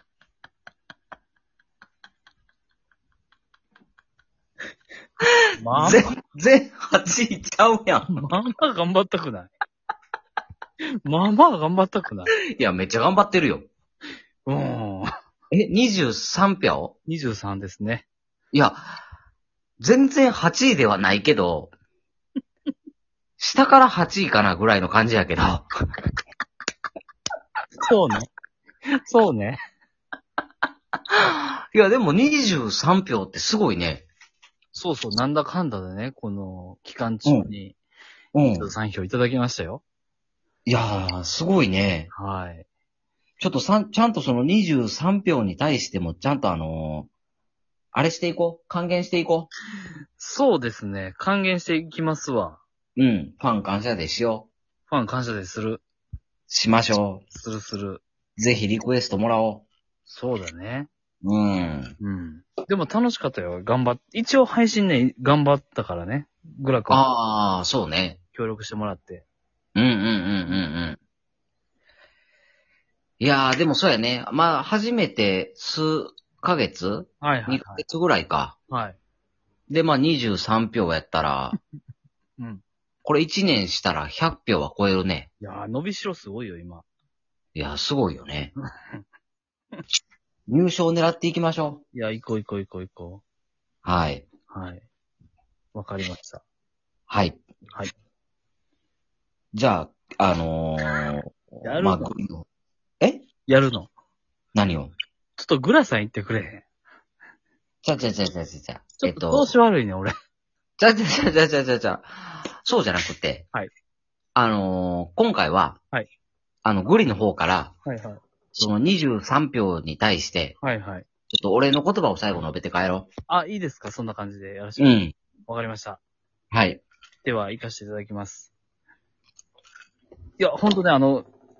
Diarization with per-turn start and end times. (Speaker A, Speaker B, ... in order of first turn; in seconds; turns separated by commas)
Speaker A: 5.6-6.0, Speaker B: 5.8-8.2, Speaker A: 8.1-9.5, Speaker A: 11.0-12.3, Speaker B: 12.5-13.7, Speaker A: 14.4-15.1, Speaker B: 15.5-16.9, Speaker A: 17.1-18.0, Speaker B: 18.5-18.8, Speaker B: 19.8-21.7, Speaker B: 23.4-25.7, Speaker A: 27.8-28.3, Speaker A: 28.9-29.6, Speaker B: 31.1-34.0, Speaker A: 34.7-37.8, Speaker B: 38.3-38.7, Speaker A: 38.5-39.8, Speaker B: 40.6-42.1, Speaker A: 42.1-42.6, Speaker B: 43.4-47.1, Speaker B: 47.9-49.5, Speaker A: 50.2-52.6, Speaker B: 53.0-54.5, Speaker A: 54.9-55.8, Speaker B: 56.5-57.2, Speaker A: 57.3-58.0, Speaker B: 58.4-59.6, Speaker A: 60.1-60.9, Speaker B: 61.2-62.0, Speaker A: 62.0-67.0, Speaker B: 66.9-68.2, Speaker A: 68.3-69.2, Speaker B: 69.7-71.0, Speaker B: 73.2-78.5, Speaker A: 77.2-77.8, Speaker A: 78.7-79.0, Speaker B: 79.7-81.6, Speaker B: 83.0-85.3, Speaker A: 85.4-86.8, Speaker B: 87.5-88.5, Speaker B: 90.5-91.8, Speaker A: 91.9-93.2, Speaker B: 93.8-94.2, Speaker A: 94.5-94.8, Speaker A: 95.7-96.4, Speaker B: 97.1-97.4, Speaker B: 99.5-102.4, Speaker A: 101.6-102.1, Speaker B: 103.0-103.2, Speaker A: 103.5-103.9, Speaker B: 104.5-104.9, Speaker A: 105.4-106.6, Speaker B: 107.8-109.5, Speaker A: 109.0-110.1, Speaker B: 110.8-113.4, Speaker B: 114.3-115.8, Speaker B: 116.6-117.7, Speaker A: 117.8-118.2, Speaker B: 118.5-120.5, Speaker A: 120.6-121.0, Speaker B: 121.3-123.1, Speaker A: 123.3-126.0, Speaker B: 124.8-125.1, Speaker B: 126.5-126.8, Speaker A: 127.2-128.5, Speaker A: 130.4-131.2